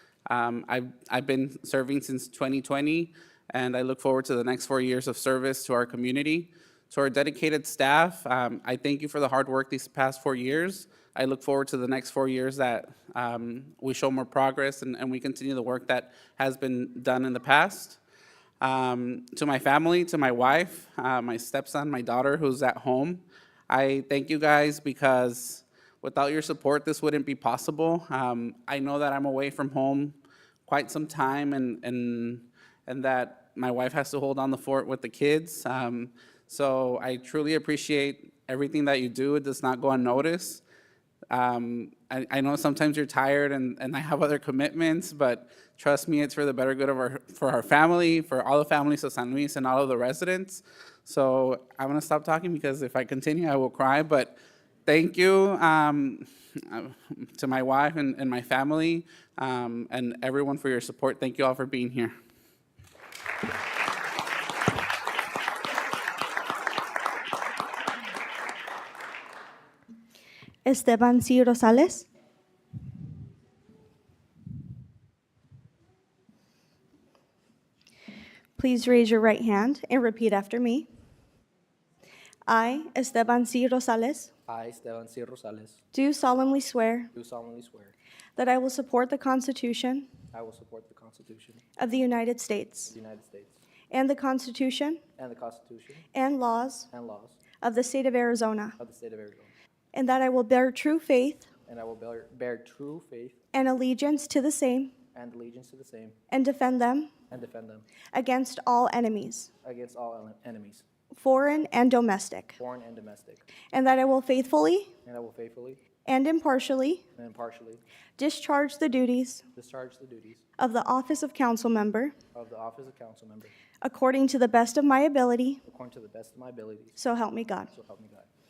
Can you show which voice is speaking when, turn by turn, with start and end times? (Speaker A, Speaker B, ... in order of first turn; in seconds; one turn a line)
Speaker A: 0.3-18.0
Speaker A: 18.6-40.6
Speaker A: 41.3-62.1
Speaker B: 70.6-72.1
Speaker B: 78.6-80.9
Speaker B: 82.5-84.3
Speaker C: 84.5-85.8
Speaker B: 85.9-87.1
Speaker C: 87.1-87.9
Speaker B: 88.3-90.2
Speaker C: 90.3-91.6
Speaker B: 91.8-92.9
Speaker C: 92.9-93.6
Speaker B: 93.9-95.0
Speaker C: 95.2-96.1
Speaker B: 96.1-96.9
Speaker C: 96.9-97.5
Speaker B: 97.6-98.8
Speaker C: 98.8-99.5
Speaker B: 99.9-101.5
Speaker C: 101.7-103.4
Speaker B: 103.5-105.0
Speaker C: 105.1-106.2
Speaker B: 106.3-107.2
Speaker C: 107.3-108.0
Speaker B: 108.1-109.5
Speaker C: 109.6-110.8
Speaker B: 111.1-112.6
Speaker C: 112.6-113.5
Speaker B: 113.6-114.9
Speaker C: 115.0-115.8
Speaker B: 116.0-117.0
Speaker C: 117.1-117.8
Speaker B: 118.2-119.5
Speaker C: 119.5-120.4
Speaker B: 120.6-122.1
Speaker C: 122.3-123.5
Speaker B: 123.8-125.6
Speaker C: 125.6-127.0
Speaker B: 127.0-127.7
Speaker C: 127.7-128.3